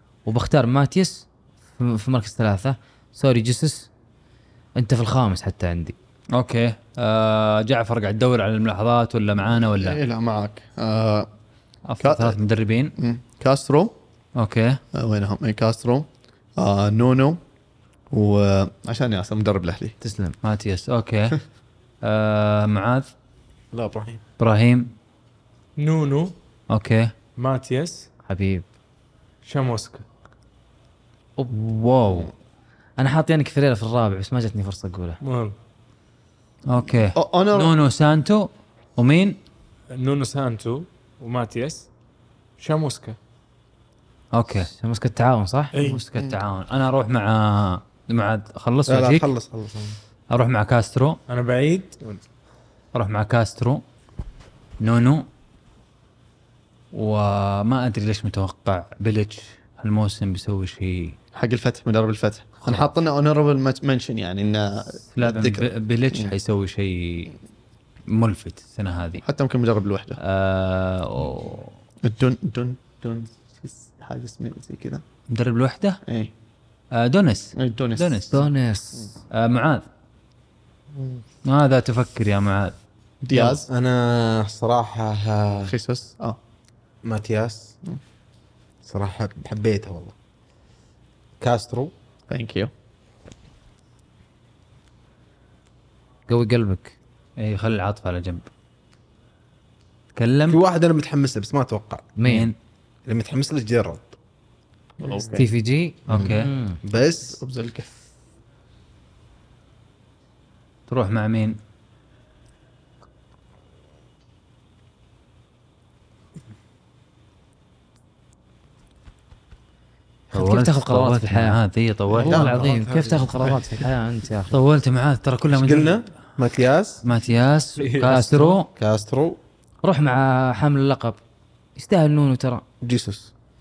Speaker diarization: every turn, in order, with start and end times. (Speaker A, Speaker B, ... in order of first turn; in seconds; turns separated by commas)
Speaker A: 0.2-3.9, Speaker A: 4.8-6.0, Speaker B: 6.3-10.0, Speaker C: 9.5-11.3, Speaker B: 11.9-12.9, Speaker C: 12.0-12.4, Speaker C: 13.0-13.9, Speaker B: 14.3-14.8, Speaker C: 14.9-17.4, Speaker C: 18.1-19.9, Speaker A: 20.0-20.4, Speaker B: 20.4-21.4, Speaker B: 22.0-23.1, Speaker D: 23.7-24.2, Speaker B: 24.4-24.9, Speaker E: 25.8-26.3, Speaker B: 26.7-27.1, Speaker E: 27.4-28.1, Speaker A: 28.3-28.6, Speaker E: 29.4-30.0, Speaker B: 31.5-32.3, Speaker A: 33.0-35.2, Speaker E: 35.2-35.5, Speaker B: 36.7-39.4, Speaker C: 37.1-37.7, Speaker E: 39.9-41.9, Speaker E: 42.6-43.2, Speaker B: 44.3-44.7, Speaker A: 44.5-45.7, Speaker E: 45.7-46.0, Speaker B: 45.8-49.3, Speaker C: 45.8-46.4, Speaker D: 48.9-50.0, Speaker B: 50.3-51.2, Speaker E: 51.3-52.0, Speaker B: 52.9-53.8, Speaker B: 54.8-55.2, Speaker B: 56.9-61.1, Speaker C: 61.3-66.3, Speaker B: 62.6-62.9, Speaker B: 65.1-67.3, Speaker B: 68.1-69.2, Speaker C: 69.2-70.2, Speaker B: 70.2-71.7, Speaker C: 72.0-75.0, Speaker B: 75.3-76.0, Speaker C: 76.0-76.3, Speaker B: 76.9-78.4, Speaker C: 77.6-78.5, Speaker A: 78.3-79.1, Speaker B: 79.3-79.8, Speaker B: 81.4-82.8, Speaker C: 83.2-83.7, Speaker D: 83.7-85.7, Speaker C: 85.6-86.4, Speaker D: 87.0-87.7, Speaker D: 88.8-90.1, Speaker D: 91.4-91.9, Speaker C: 92.3-92.7, Speaker A: 96.3-96.9, Speaker B: 97.4-98.5, Speaker B: 100.1-100.6, Speaker D: 100.5-102.1, Speaker A: 102.2-102.5, Speaker B: 102.2-102.5, Speaker D: 103.1-104.1, Speaker C: 105.0-105.5, Speaker A: 105.3-106.8, Speaker D: 106.1-106.3, Speaker B: 106.1-106.5, Speaker D: 106.9-107.4, Speaker C: 107.2-107.9, Speaker B: 110.9-111.6, Speaker A: 120.3-121.6, Speaker B: 120.3-122.7, Speaker D: 122.1-123.5, Speaker A: 122.2-124.5, Speaker B: 124.5-126.0, Speaker D: 125.5-127.0, Speaker B: 127.0-128.7, Speaker E: 127.8-128.2, Speaker A: 128.0-128.6, Speaker D: 128.8-129.4, Speaker A: 129.8-131.2, Speaker A: 131.8-132.6, Speaker D: 132.8-133.3